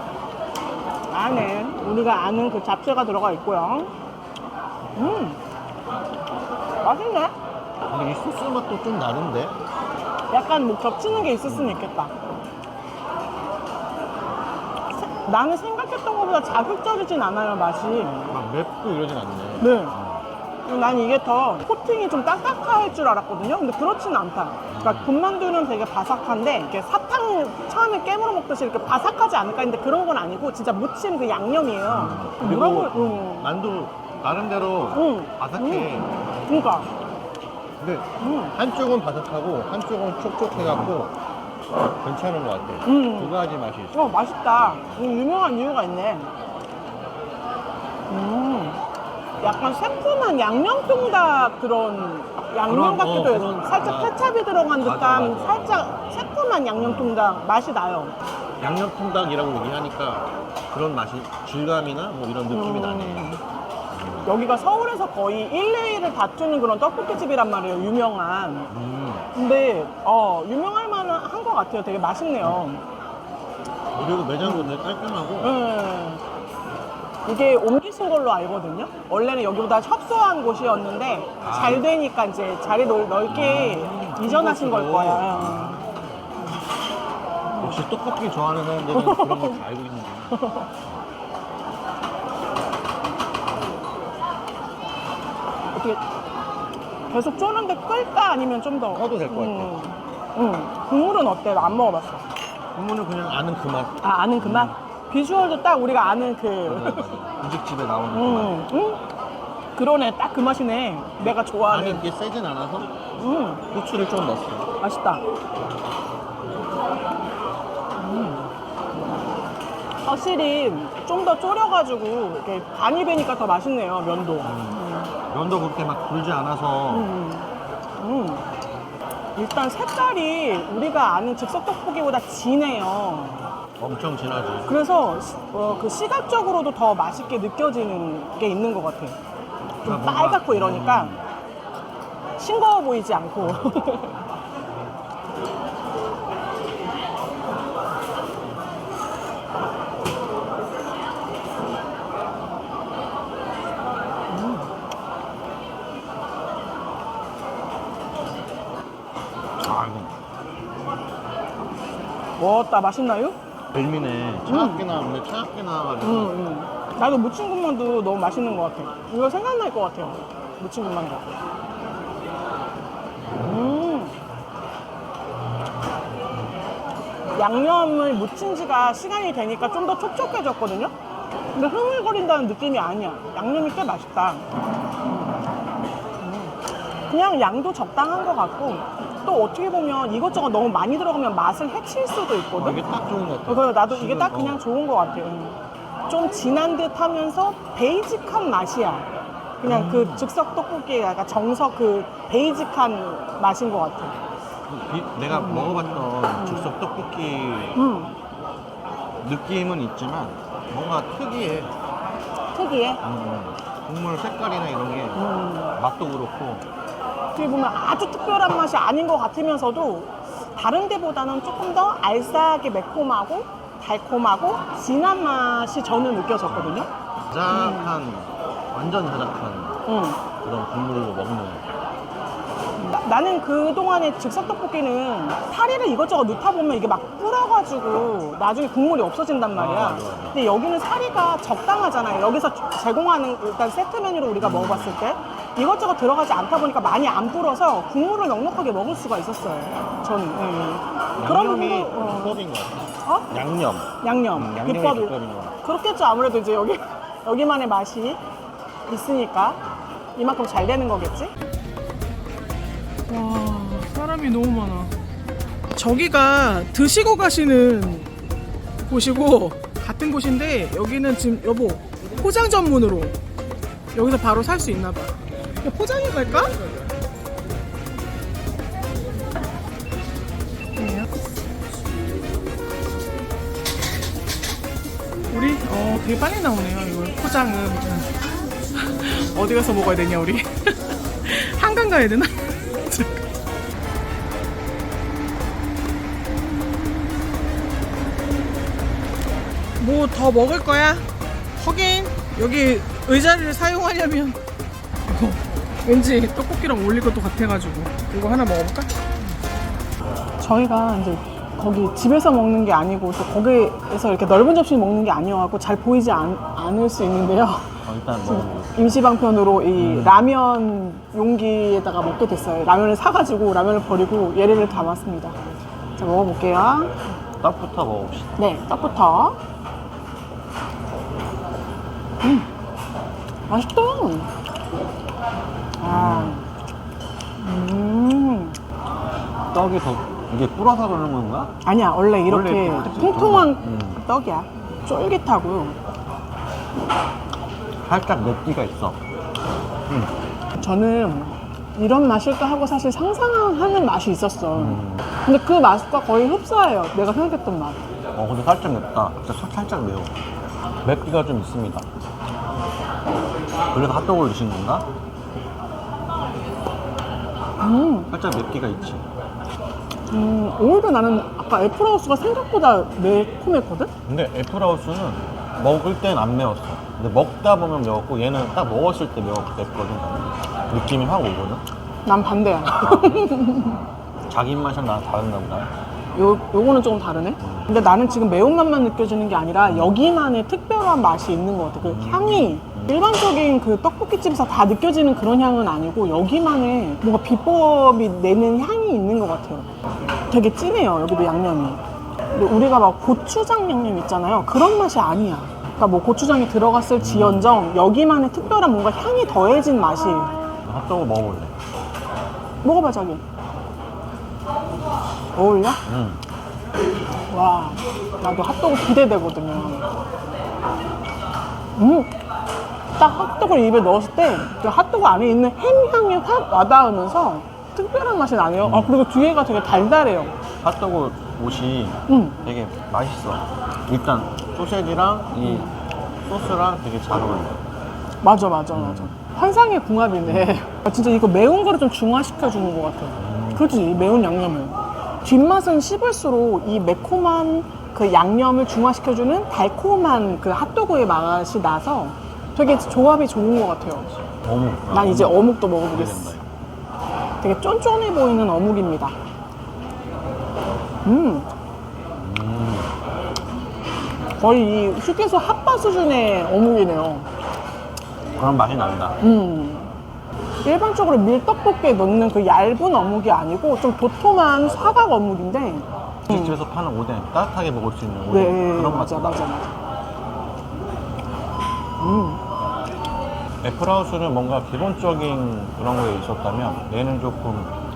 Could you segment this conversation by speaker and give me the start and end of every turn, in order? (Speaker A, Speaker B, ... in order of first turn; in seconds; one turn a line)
Speaker A: 1.1-3.9
Speaker A: 5.0-5.4
Speaker A: 6.8-7.3
Speaker B: 7.9-9.6
Speaker A: 10.3-12.1
Speaker B: 11.1-11.8
Speaker A: 14.9-18.3
Speaker B: 18.3-20.2
Speaker A: 19.6-19.9
Speaker A: 20.6-33.5
Speaker B: 24.7-25.1
Speaker B: 31.9-36.1
Speaker A: 34.9-36.9
Speaker B: 37.8-41.1
Speaker A: 38.2-38.5
Speaker B: 42.0-45.1
Speaker A: 42.8-43.3
Speaker A: 43.9-46.3
Speaker A: 48.1-48.8
Speaker A: 49.4-58.1
Speaker B: 52.6-54.2
Speaker B: 54.8-57.2
Speaker B: 58.6-63.4
Speaker A: 62.5-63.4
Speaker B: 63.9-64.3
Speaker A: 64.2-68.7
Speaker B: 68.7-69.3
Speaker A: 69.3-72.8
Speaker B: 74.0-75.6
Speaker A: 74.4-74.7
Speaker A: 75.4-76.2
Speaker A: 77.2-85.8
Speaker B: 81.4-81.9
Speaker B: 83.3-86.3
Speaker B: 87.6-91.0
Speaker A: 88.9-89.6
Speaker A: 90.3-90.6
Speaker A: 95.7-96.0
Speaker A: 97.1-102.2
Speaker B: 98.9-99.8
Speaker B: 102.7-104.7
Speaker A: 104.0-107.1
Speaker B: 106.6-108.6
Speaker A: 108.1-109.0
Speaker A: 109.8-112.1
Speaker B: 111.6-112.9
Speaker A: 113.2-113.6
Speaker B: 113.7-114.7
Speaker A: 114.8-115.2
Speaker A: 118.0-118.5
Speaker A: 120.0-125.1
Speaker B: 124.4-127.1
Speaker A: 126.9-128.4
Speaker A: 129.3-133.5
Speaker B: 133.8-134.7
Speaker A: 134.7-139.2
Speaker B: 139.8-141.2
Speaker A: 139.8-141.2
Speaker A: 142.4-144.1
Speaker A: 154.3-154.7
Speaker B: 159.6-160.1
Speaker A: 162.4-163.3
Speaker B: 163.7-166.4
Speaker A: 164.5-164.8
Speaker A: 166.0-171.3
Speaker A: 173.4-174.2
Speaker A: 177.3-180.9
Speaker A: 181.5-184.4
Speaker A: 186.2-186.5
Speaker A: 187.1-192.8
Speaker B: 192.6-194.6
Speaker A: 193.5-199.1
Speaker A: 199.6-204.1
Speaker B: 199.6-200.3
Speaker B: 204.7-207.8
Speaker A: 205.3-206.7
Speaker A: 207.7-208.2
Speaker B: 209.2-211.7
Speaker A: 212.5-213.0
Speaker B: 213.0-216.6
Speaker A: 215.1-215.8
Speaker A: 217.3-226.9
Speaker B: 226.5-226.8
Speaker B: 227.3-229.8
Speaker A: 227.5-228.0
Speaker A: 229.8-230.2
Speaker B: 230.4-231.6
Speaker A: 232.8-252.4
Speaker B: 239.5-240.4
Speaker B: 244.4-245.0
Speaker B: 251.2-255.5
Speaker A: 254.0-258.2
Speaker A: 258.9-259.6
Speaker A: 260.1-261.3
Speaker A: 263.1-264.9
Speaker A: 265.7-268.1
Speaker A: 268.9-273.1
Speaker A: 273.9-276.6
Speaker A: 280.8-281.1
Speaker A: 285.3-288.1
Speaker A: 288.7-293.1
Speaker A: 299.8-304.4
Speaker A: 305.1-308.9
Speaker A: 310.4-325.4
Speaker B: 317.8-319.0
Speaker B: 319.8-320.3
Speaker A: 326.0-327.0
Speaker B: 327.4-328.4
Speaker A: 328.4-329.4
Speaker A: 332.2-332.5
Speaker A: 333.5-334.3
Speaker A: 335.8-336.4
Speaker B: 335.8-336.4
Speaker A: 337.4-338.6
Speaker B: 339.5-341.5
Speaker A: 341.6-345.8
Speaker B: 342.2-344.0
Speaker B: 347.8-349.0
Speaker A: 350.6-357.8
Speaker B: 354.5-355.0
Speaker B: 358.1-360.2
Speaker B: 360.8-361.9
Speaker B: 363.7-364.9
Speaker A: 367.6-368.1
Speaker B: 368.1-369.1
Speaker A: 370.1-373.9
Speaker B: 374.1-381.6
Speaker A: 382.1-383.8
Speaker B: 382.8-383.8
Speaker B: 384.3-385.7
Speaker A: 386.1-399.7
Speaker B: 387.4-387.7
Speaker B: 389.6-389.9
Speaker B: 391.8-393.0
Speaker A: 400.3-401.8
Speaker A: 402.3-410.4
Speaker B: 407.0-407.6
Speaker B: 410.6-411.6
Speaker A: 412.6-413.2
Speaker A: 415.3-415.8
Speaker B: 415.8-416.2
Speaker A: 417.3-419.9
Speaker A: 421.8-422.1
Speaker A: 423.0-430.3
Speaker B: 428.6-428.9
Speaker B: 430.6-437.6
Speaker A: 432.1-432.5
Speaker A: 435.4-435.7
Speaker A: 438.2-454.1
Speaker B: 438.7-439.1
Speaker B: 440.2-440.6
Speaker B: 443.2-443.8
Speaker B: 454.1-456.4
Speaker A: 454.9-456.4
Speaker A: 457.4-459.1
Speaker A: 461.0-461.5
Speaker B: 462.2-462.9
Speaker A: 464.4-467.3
Speaker B: 468.4-469.2
Speaker A: 469.2-469.9
Speaker A: 470.6-476.6
Speaker B: 474.6-475.0
Speaker B: 476.3-479.5
Speaker A: 478.3-479.7
Speaker A: 482.0-482.4
Speaker B: 482.0-482.3
Speaker B: 483.6-487.7